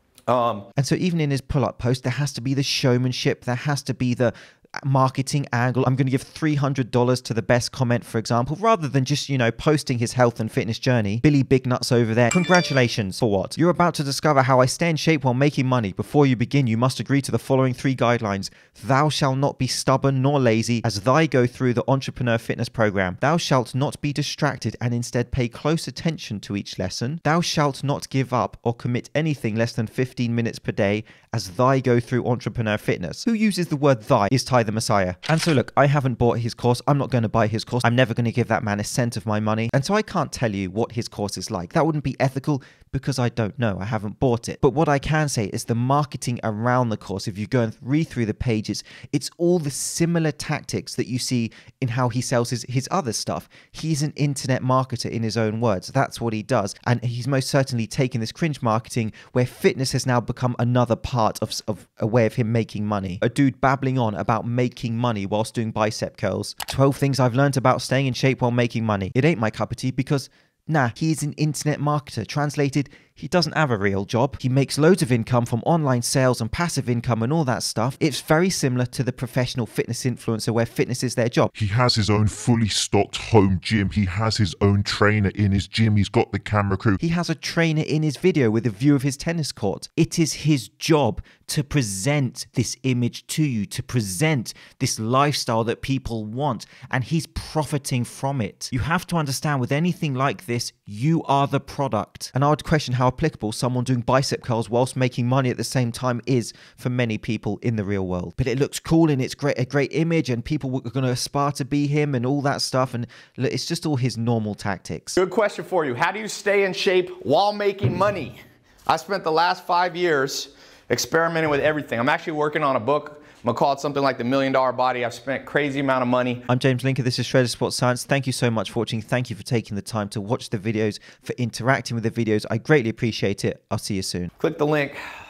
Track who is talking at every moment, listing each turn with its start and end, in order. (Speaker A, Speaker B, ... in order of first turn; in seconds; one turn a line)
Speaker A: 0.3-0.7
Speaker B: 0.8-81.5
Speaker C: 81.5-87.0
Speaker B: 87.0-115.2
Speaker A: 115.2-126.5
Speaker B: 126.5-134.3
Speaker A: 134.4-135.0